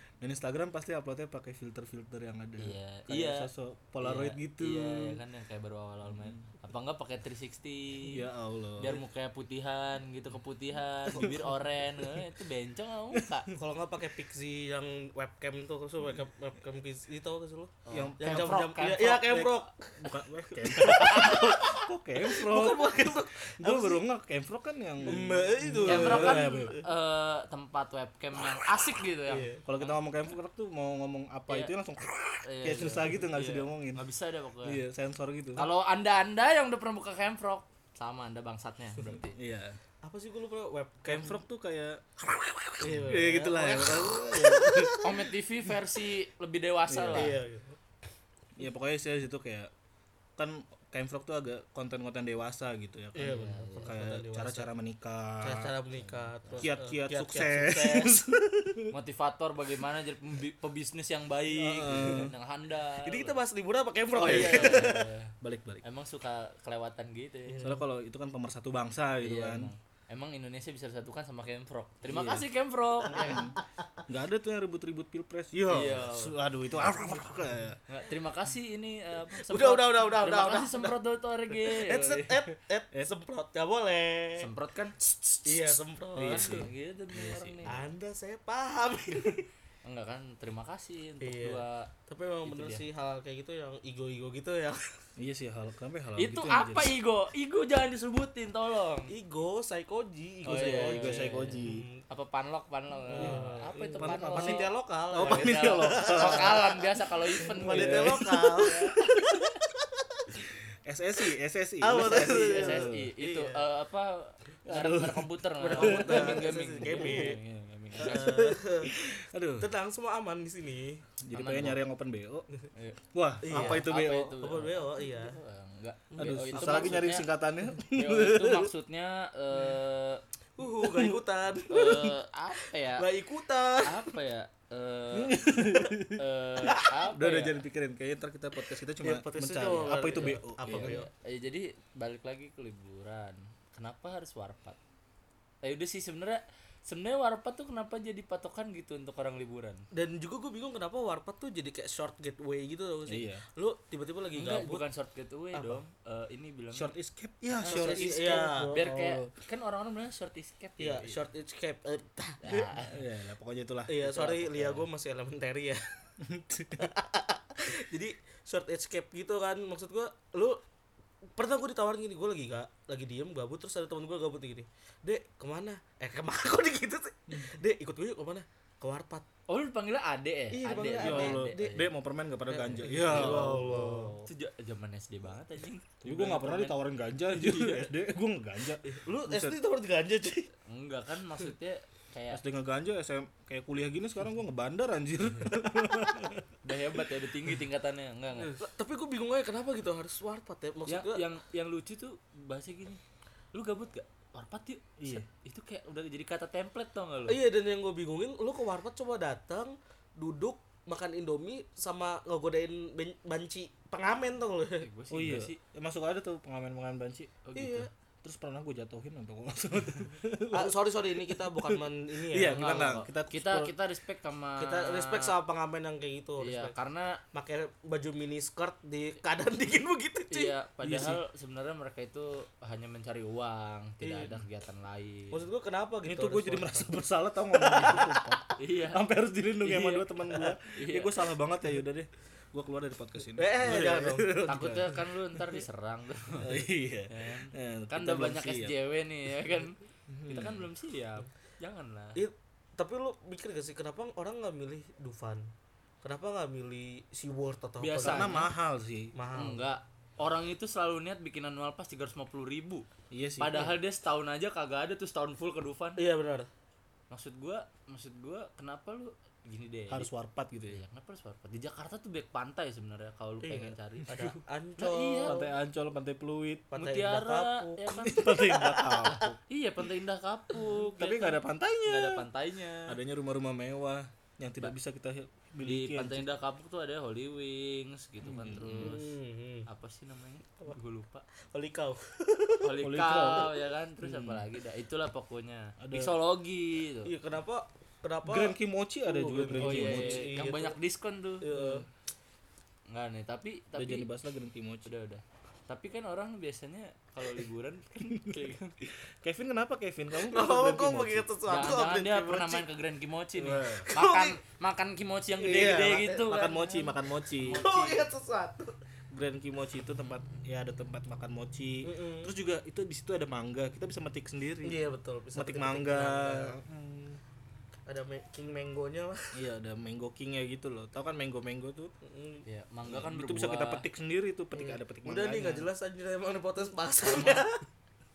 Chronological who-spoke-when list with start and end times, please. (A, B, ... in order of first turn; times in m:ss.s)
0:00.2-0:05.2 A
0:02.6-0:08.3 B
0:06.1-0:06.5 A
0:08.1-0:09.0 A
0:08.8-0:13.5 B
0:11.2-0:11.4 A
0:13.1-0:13.6 A
0:13.6-0:24.0 C
0:17.8-0:19.2 B
0:17.9-0:26.8 A
0:20.7-0:21.6 B
0:25.0-0:26.8 C
0:25.1-0:25.3 B
0:25.8-0:30.0 B
0:29.3-0:29.6 C
0:29.6-0:34.0 A
0:31.5-0:31.7 B
0:32.4-0:34.8 B
0:34.6-0:35.7 A
0:35.6-0:39.4 B
0:39.3-0:39.8 A
0:40.0-0:41.4 C
0:41.1-0:45.3 A
0:42.8-0:45.0 C
0:43.1-0:43.9 B
0:45.0-0:47.4 B
0:46.9-0:47.4 A
0:47.1-0:47.8 C
0:48.6-0:49.7 A
0:50.4-0:55.8 A
0:53.2-0:54.7 C
0:53.3-0:54.0 B
0:55.4-0:58.2 C
0:56.0-0:56.7 B
0:56.6-0:58.9 A
0:58.9-1:03.4 B
1:01.5-1:02.3 A
1:03.0-1:05.0 C
1:04.1-1:05.8 A
1:04.2-1:07.8 B
1:07.6-1:09.7 A
1:09.2-1:13.5 B
1:12.0-1:12.5 A
1:13.1-1:13.5 A
1:14.1-1:17.8 A
1:15.5-1:16.0 C
1:15.7-1:17.2 B
1:17.9-1:22.5 B
1:19.3-1:21.0 C
1:21.5-1:24.5 C
1:24.4-1:25.5 B
1:25.4-1:26.7 C
1:26.2-1:27.9 A
1:26.2-1:27.8 B
1:27.7-1:29.5 C
1:29.8-1:31.9 B
1:31.2-1:34.8 C
1:32.4-1:32.8 B
1:35.2-1:37.0 A
1:36.2-1:39.1 B
1:39.1-1:42.0 C
1:40.4-1:41.9 A
1:40.5-1:49.0 B
1:43.1-1:49.2 C
1:43.2-1:46.7 A
1:47.4-1:48.5 A
1:50.9-1:53.1 A
1:51.8-1:53.6 C
1:52.0-1:58.4 B
1:54.6-1:57.3 A
1:55.6-1:57.4 C
1:58.0-1:59.0 C
1:58.0-1:59.7 A
1:59.6-2:01.0 C
2:01.2-2:02.5 A
2:01.3-2:01.8 B
2:02.7-2:07.3 B
2:03.1-2:04.4 A
2:03.4-2:05.4 C
2:06.1-2:07.0 C
2:06.2-2:08.7 A
2:07.9-2:10.2 B
2:10.6-2:12.2 C
2:10.6-2:11.2 A
2:11.7-2:13.1 B
2:12.8-2:14.2 C
2:13.8-2:15.5 B
2:15.1-2:16.2 A
2:16.2-2:17.6 B
2:16.8-2:21.0 A
2:19.0-2:21.1 C
2:19.8-2:24.8 B
2:25.6-2:29.8 B
2:29.9-2:34.8 C
2:33.1-2:33.4 A
2:34.4-2:36.9 B
2:35.5-2:35.8 C
2:36.7-2:39.3 A
2:37.6-2:38.8 C
2:37.6-2:38.1 B
2:38.7-2:41.2 B
2:40.8-2:42.8 C
2:42.4-2:43.0 B
2:42.9-2:44.8 A
2:43.9-2:45.8 C
2:44.2-2:44.8 B
2:46.2-2:46.9 A
2:46.8-2:50.6 C
2:51.4-2:59.3 C
2:59.5-3:01.9 B
3:00.5-3:01.8 C
3:01.0-3:04.3 A
3:02.5-3:04.2 C
3:03.0-3:06.8 B
3:06.0-3:09.6 A
3:07.3-3:07.9 B
3:08.8-3:10.5 C
3:10.7-3:12.4 B
3:12.3-3:16.5 A
3:15.6-3:16.2 C
3:16.6-3:18.6 B
3:18.3-3:18.6 A
3:18.6-3:21.2 C
3:20.9-3:23.0 B
3:23.5-3:27.4 B
3:25.0-3:25.3 A
3:27.3-3:34.9 C
3:34.8-3:35.6 B
3:35.1-3:43.7 A
3:37.4-3:37.9 B
3:37.6-3:37.9 C
3:40.5-3:42.7 C
3:42.5-3:45.4 B
3:44.6-3:46.7 C
3:46.4-3:47.2 B
3:47.3-3:50.5 C
3:50.3-3:55.4 B
3:50.8-3:51.2 A
3:54.0-3:54.4 C
3:55.3-3:57.0 C
3:56.1-4:04.9 A
3:57.5-3:58.4 C
3:58.6-3:59.0 B
3:59.6-4:00.1 B
4:00.7-4:01.2 B
4:03.4-4:05.0 C
4:04.4-4:12.2 B
4:06.4-4:08.7 A
4:10.1-4:10.7 A
4:12.2-4:15.5 C
4:16.0-4:18.4 C
4:17.8-4:18.5 B
4:18.0-4:19.1 A
4:19.1-4:19.6 C
4:19.3-4:22.9 B
4:23.1-4:23.7 A
4:23.4-4:26.0 B
4:26.0-4:26.5 C
4:27.1-4:30.1 B
4:29.9-4:30.8 A
4:30.7-4:35.5 B
4:33.4-4:35.5 C
4:35.2-4:36.7 A
4:36.7-4:39.2 C
4:36.8-4:43.0 B
4:38.0-4:39.4 A
4:40.7-4:42.3 A
4:42.9-4:46.3 A
4:45.6-4:49.2 B
4:48.2-4:49.0 A
4:48.8-4:49.7 C
4:49.7-4:51.3 B
4:51.4-4:52.7 C
4:52.6-4:57.1 B
4:52.8-4:54.4 A
4:55.8-4:56.2 A
4:57.0-5:00.8 C
4:58.2-5:00.3 A
4:59.6-5:01.5 B
5:01.4-5:01.9 C
5:01.5-5:01.9 A
5:02.9-5:04.1 B
5:03.8-5:04.9 A
5:04.9-5:08.7 B
5:08.1-5:11.3 A
5:10.2-5:12.7 C
5:11.5-5:16.7 B
5:13.4-5:13.9 A
5:13.7-5:14.4 C
5:15.4-5:16.9 C
5:16.2-5:17.6 A
5:17.3-5:18.1 B
5:17.6-5:18.8 C
5:19.1-5:24.8 A
5:21.8-5:22.3 C
5:24.6-5:26.6 C
5:25.4-5:27.2 A
5:27.9-5:29.4 C
5:29.3-5:31.9 A
5:32.0-5:32.4 C
5:32.4-5:33.8 B
5:32.9-5:35.7 A
5:34.5-5:37.6 C
5:37.1-5:37.4 B